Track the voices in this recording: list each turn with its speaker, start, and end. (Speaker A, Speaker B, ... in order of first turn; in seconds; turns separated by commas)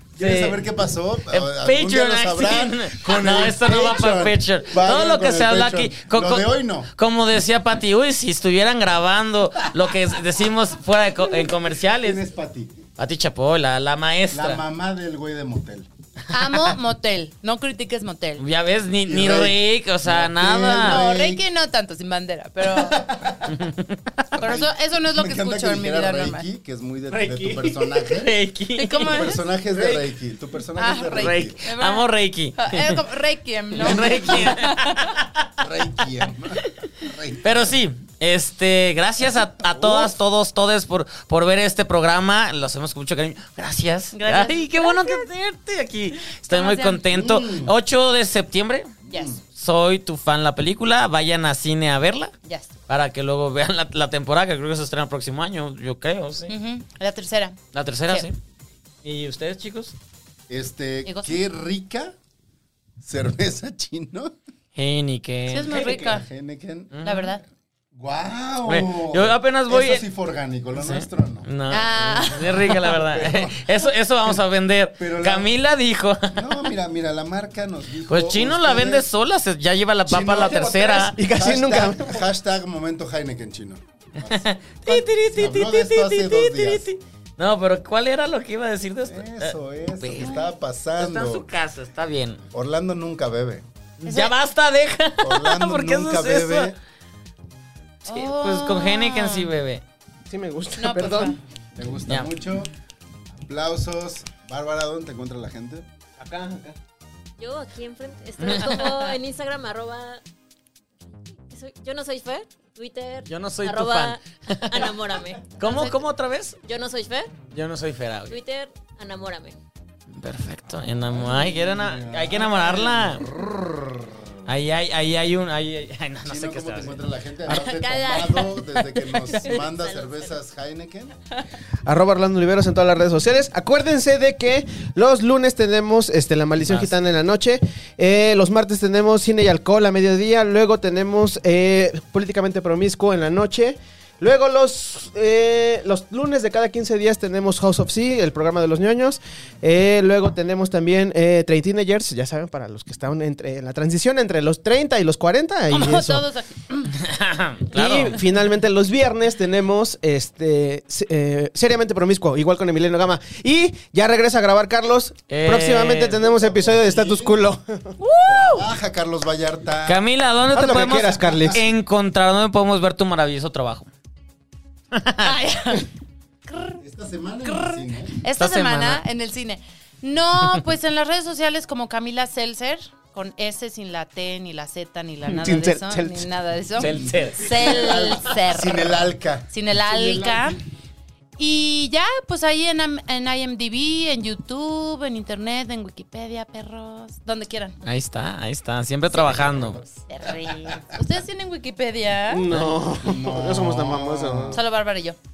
Speaker A: 0.1-6.9, Speaker B: 0.2-0.6, Speaker C: 1.3-12.2, Speaker A: 11.2-12.8, Speaker C: 13.0-14.6, Speaker A: 14.3-15.9, Speaker D: 16.3-18.4, Speaker C: 16.4-16.7, Speaker C: 18.4-21.0, Speaker A: 19.0-21.4, Speaker D: 20.7-23.0, Speaker B: 22.9-23.2, Speaker A: 23.2-23.6, Speaker C: 23.5-24.2, Speaker A: 24.3-28.4, Speaker D: 24.4-26.4, Speaker B: 27.1-27.9, Speaker C: 28.1-29.2, Speaker D: 28.8-29.4, Speaker A: 29.0-31.6, Speaker B: 29.7-30.0, Speaker D: 30.8-35.1, Speaker C: 31.2-33.0, Speaker C: 33.7-35.4, Speaker A: 33.8-34.6, Speaker A: 35.6-37.7, Speaker C: 36.5-36.9, Speaker C: 37.4-48.9, Speaker A: 39.2-40.1, Speaker D: 44.1-45.2, Speaker D: 46.5-47.0, Speaker A: 47.0-47.7, Speaker A: 49.0-49.4, Speaker D: 49.1-49.3, Speaker C: 49.5-52.3, Speaker D: 52.4-52.7, Speaker C: 52.9-56.5, Speaker D: 56.5-58.3, Speaker C: 57.7-58.4, Speaker C: 59.0-59.9, Speaker A: 60.5-62.1, Speaker D: 61.0-61.4, Speaker A: 63.0-64.3, Speaker C: 64.7-65.7, Speaker D: 65.5-66.2, Speaker B: 65.7-66.1, Speaker A: 65.8-67.0, Speaker C: 66.9-67.3, Speaker D: 67.0-67.4, Speaker A: 67.9-71.5, Speaker C: 68.7-70.0, Speaker C: 70.7-76.7, Speaker D: 71.7-72.8, Speaker A: 72.8-74.4, Speaker A: 75.0-75.5, Speaker A: 76.3-79.1, Speaker C: 78.1-81.2, Speaker A: 80.1-86.9, Speaker B: 81.0-82.2, Speaker C: 84.2-92.4, Speaker A: 89.0-91.5, Speaker A: 92.5-93.7, Speaker C: 94.0-96.7, Speaker D: 94.0-94.3, Speaker A: 95.2-96.8, Speaker D: 98.1-99.5, Speaker C: 98.1-99.8, Speaker B: 100.3-101.4, Speaker D: 100.8-101.4, Speaker A: 101.7-102.7, Speaker A: 103.3-105.9, Speaker B: 106.2-106.8, Speaker E: 107.4-110.2, Speaker C: 108.4-108.9, Speaker E: 111.5-116.0, Speaker C: 113.3-115.0, Speaker C: 115.6-116.6, Speaker E: 116.6-117.3, Speaker C: 117.5-118.4, Speaker E: 118.3-119.6, Speaker C: 120.1-123.2, Speaker A: 120.7-124.5, Speaker C: 124.5-127.0, Speaker A: 126.2-131.1, Speaker E: 127.5-130.3, Speaker B: 131.8-156.2, Speaker C: 136.6-136.9, Speaker D: 155.7-156.9, Speaker C: 157.0-158.2, Speaker B: 157.7-167.9, Speaker C: 165.3-166.2, Speaker A: 166.1-167.5, Speaker D: 168.0-168.7, Speaker A: 168.2-171.6, Speaker C: 169.8-173.9, Speaker B: 170.5-171.6, Speaker C: 174.9-175.3, Speaker D: 175.2-175.8, Speaker D: 176.4-176.8, Speaker A: 176.8-178.1, Speaker D: 177.4-189.0, Speaker C: 178.4-179.0, Speaker B: 185.2-186.3, Speaker C: 186.8-188.0, Speaker A: 186.8-190.6, Speaker D: 189.5-190.6, Speaker D: 191.4-197.8, Speaker C: 197.8-199.8, Speaker A: 199.1-201.0, Speaker D: 200.1-202.4, Speaker B: 202.3-204.6, Speaker A: 202.5-204.6, Speaker D: 204.5-205.2